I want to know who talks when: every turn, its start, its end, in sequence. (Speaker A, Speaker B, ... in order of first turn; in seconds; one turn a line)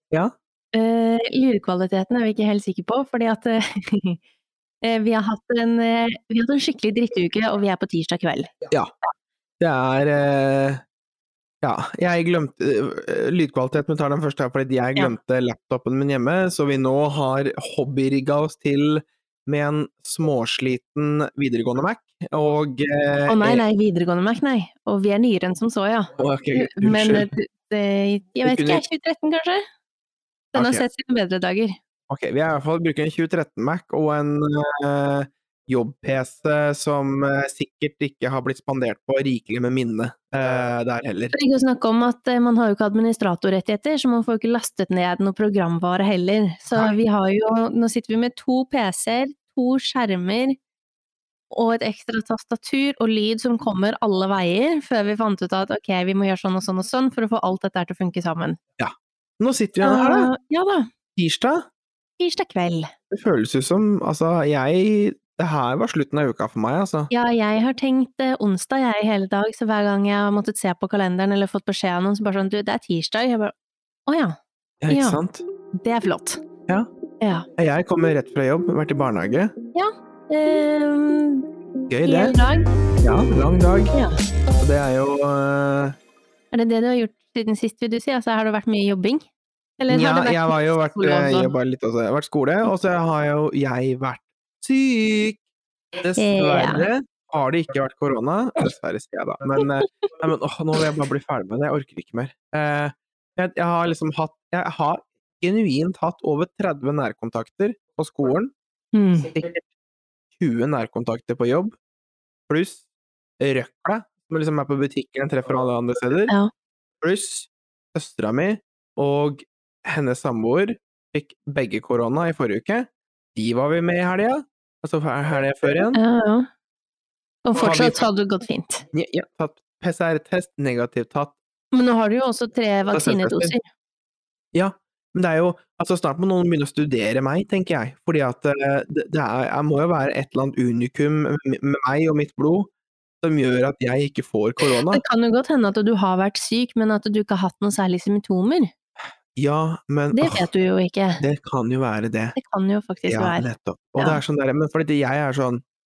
Speaker A: 0.7-4.2
Speaker A: 4.8-8.6
Speaker B: 9.6-10.8
Speaker B: 11.6-23.6
Speaker A: 23.3-29.6
Speaker B: 26.2-27.3
Speaker B: 28.4-28.8
Speaker B: 30.5-30.8
Speaker A: 30.5-31.8
Speaker B: 32.1-41.3
Speaker A: 41.3-50.6
Speaker A: 51.5-58.6
Speaker B: 58.8-60.3
Speaker A: 59.8-60.9
Speaker B: 61.1-61.6
Speaker A: 62.2-62.9
Speaker B: 63.1-67.1
Speaker A: 67.1-73.5
Speaker A: 74.1-74.4
Speaker B: 74.8-75.4
Speaker A: 74.9-75.2
Speaker A: 75.8-76.4
Speaker A: 77.2-77.5
Speaker B: 77.6-79.5
Speaker A: 79.7-81.5
Speaker B: 81.9-82.4
Speaker A: 82.0-82.7
Speaker B: 83.0-83.9
Speaker B: 84.6-86.0
Speaker A: 86.5-89.2
Speaker A: 89.8-91.5
Speaker B: 89.9-95.4
Speaker B: 96.0-108.5
Speaker A: 96.2-96.9
Speaker A: 99.8-100.1
Speaker A: 108.9-109.3
Speaker B: 109.3-109.6
Speaker B: 110.3-111.8
Speaker B: 112.5-112.8
Speaker B: 113.4-116.3
Speaker B: 117.0-126.0
Speaker A: 125.9-126.5
Speaker A: 127.4-128.8
Speaker B: 127.5-128.1
Speaker B: 128.9-131.3
Speaker A: 131.7-133.6
Speaker B: 132.9-133.5
Speaker B: 134.5-142.7
Speaker B: 143.2-145.0
Speaker A: 144.7-148.7
Speaker B: 149.3-150.5
Speaker A: 150.1-151.2
Speaker B: 151.2-152.3
Speaker A: 152.3-153.4
Speaker B: 153.1-155.6